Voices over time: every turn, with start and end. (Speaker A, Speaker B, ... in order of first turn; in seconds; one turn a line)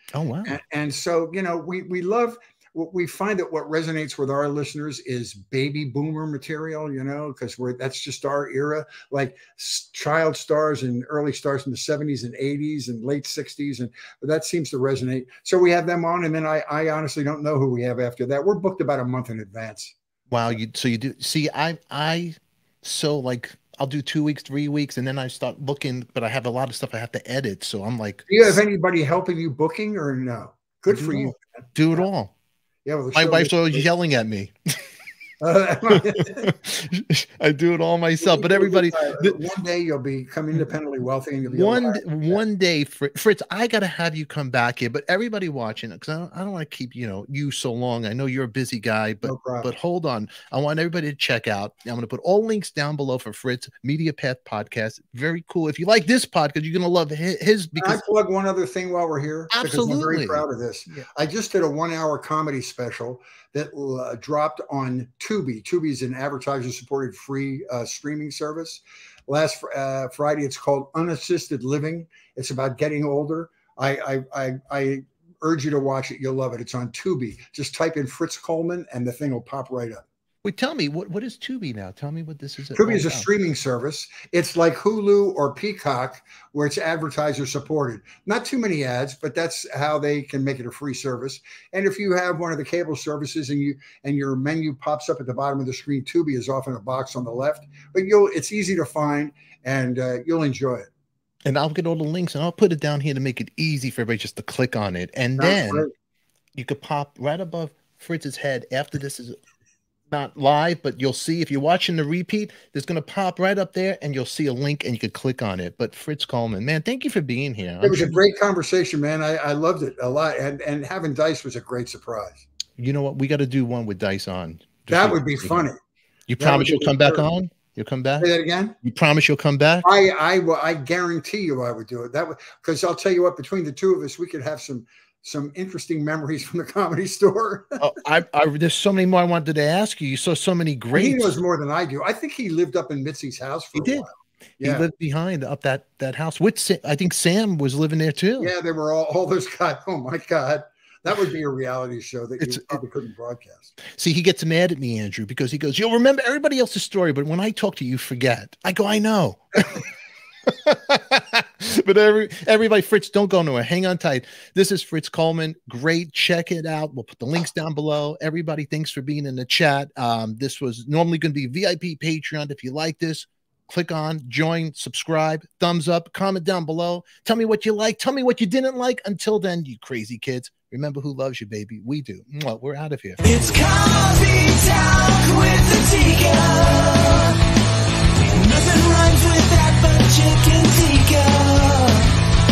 Speaker A: 0.1-0.6
Speaker B: 0.5-20.0
Speaker A: 20.3-28.6
Speaker B: 28.3-31.4
Speaker A: 30.9-32.3
Speaker B: 32.9-33.9
Speaker A: 33.1-34.8
Speaker B: 35.4-36.5
Speaker A: 35.9-39.4
Speaker B: 38.2-42.4
Speaker A: 41.5-58.0
Speaker B: 49.2-49.7
Speaker B: 57.8-80.0
Speaker A: 59.5-60.5
Speaker A: 80.4-83.3
Speaker B: 82.7-100.9
Speaker A: 101.5-105.9
Speaker B: 105.4-105.9
Speaker A: 106.5-109.4
Speaker A: 110.1-118.2
Speaker B: 117.8-122.4
Speaker A: 122.8-125.7
Speaker B: 124.9-125.8
Speaker A: 126.3-128.3
Speaker B: 126.4-127.3
Speaker B: 128.2-128.8
Speaker A: 128.8-129.9
Speaker B: 129.8-137.9
Speaker A: 137.8-141.4
Speaker B: 140.9-144.9
Speaker A: 143.8-144.1
Speaker A: 144.6-148.5
Speaker B: 148.4-153.8
Speaker A: 152.4-152.8
Speaker A: 153.8-159.9
Speaker A: 160.5-183.2
Speaker C: 183.2-187.4
Speaker C: 188.2-192.2